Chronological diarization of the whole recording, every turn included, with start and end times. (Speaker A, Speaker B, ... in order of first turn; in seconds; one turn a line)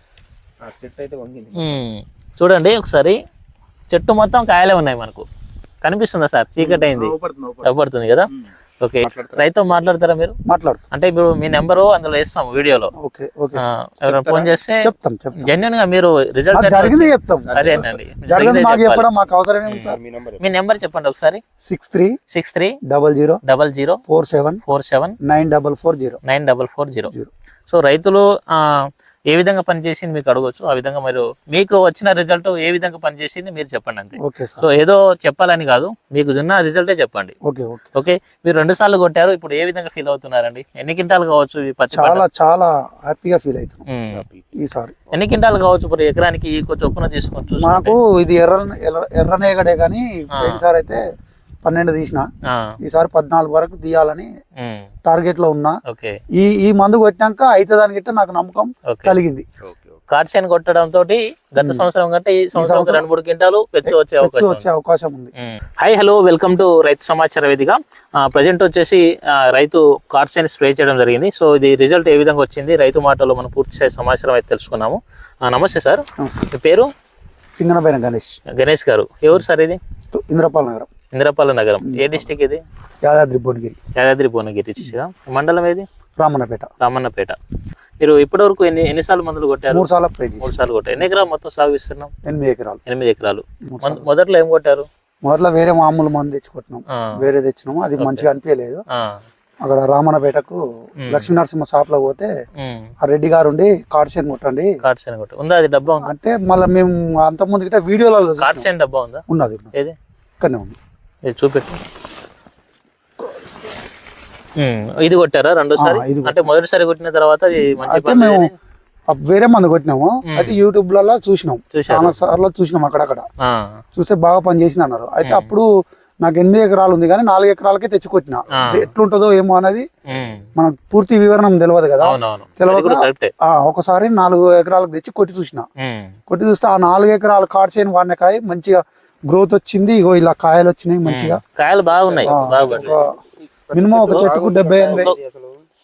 Speaker A: 0.6-1.8
Speaker B: 1.6-3.1
Speaker B: 3.9-5.2
Speaker B: 5.8-8.3
Speaker A: 6.8-7.7
Speaker B: 8.8-10.4
Speaker A: 9.0-9.4
Speaker C: 10.5-10.8
Speaker B: 10.9-12.9
Speaker C: 13.0-14.3
Speaker B: 13.6-19.1
Speaker A: 14.1-14.5
Speaker C: 14.8-15.6
Speaker C: 16.5-20.0
Speaker A: 17.5-18.0
Speaker B: 19.7-21.4
Speaker A: 19.9-20.5
Speaker C: 21.6-22.1
Speaker B: 22.3-22.8
Speaker C: 22.9-23.4
Speaker B: 23.5-24.0
Speaker C: 24.1-24.6
Speaker B: 24.7-25.2
Speaker C: 25.2-26.2
Speaker B: 26.2-27.1
Speaker B: 27.7-37.4
Speaker C: 34.2-34.7
Speaker C: 37.4-38.0
Speaker B: 38.0-42.3
Speaker C: 41.9-43.9
Speaker B: 43.9-44.2
Speaker A: 44.1-44.5
Speaker C: 44.5-45.0
Speaker B: 45.1-48.0
Speaker C: 47.6-51.0
Speaker B: 50.4-50.6
Speaker C: 51.6-52.3
Speaker B: 52.5-52.8
Speaker C: 52.8-54.3
Speaker B: 54.6-54.9
Speaker C: 55.1-55.8
Speaker B: 55.9-56.2
Speaker C: 56.4-59.5
Speaker B: 58.9-59.2
Speaker A: 59.6-60.0
Speaker B: 60.1-64.7
Speaker C: 61.6-61.9
Speaker C: 62.5-63.0
Speaker C: 63.8-65.3
Speaker B: 65.4-76.9
Speaker C: 76.2-76.5
Speaker C: 77.6-78.4
Speaker B: 78.5-79.8
Speaker C: 80.1-80.9
Speaker B: 81.1-82.6
Speaker C: 81.8-82.3
Speaker C: 83.0-83.8
Speaker B: 84.0-85.9
Speaker C: 86.2-86.7
Speaker B: 86.8-87.4
Speaker B: 88.0-89.9
Speaker C: 89.7-91.3
Speaker B: 90.4-92.1
Speaker C: 92.3-92.8
Speaker B: 92.9-94.9
Speaker C: 93.7-94.1
Speaker C: 95.2-98.8
Speaker B: 98.0-98.3
Speaker B: 98.9-99.2
Speaker C: 99.6-102.3
Speaker B: 101.0-101.3
Speaker B: 102.6-102.9
Speaker C: 103.0-104.7
Speaker B: 104.8-106.1
Speaker C: 106.0-108.7
Speaker B: 108.4-110.0
Speaker C: 109.3-109.7
Speaker C: 110.4-110.8
Speaker B: 111.3-111.8
Speaker B: 114.6-118.5
Speaker C: 115.8-116.5
Speaker C: 117.8-118.5
Speaker C: 119.1-123.2
Speaker B: 120.3-120.6
Speaker B: 121.7-122.2
Speaker B: 123.4-123.8
Speaker C: 124.0-125.7
Speaker B: 125.2-125.5
Speaker C: 126.2-129.9
Speaker B: 128.5-128.9
Speaker B: 130.1-130.5
Speaker C: 130.6-135.7
Speaker B: 132.0-133.3
Speaker B: 135.8-136.1
Speaker C: 136.3-141.4
Speaker B: 141.1-143.0
Speaker A: 142.1-145.7
Speaker C: 142.2-143.2
Speaker C: 143.7-145.1
Speaker B: 144.9-145.2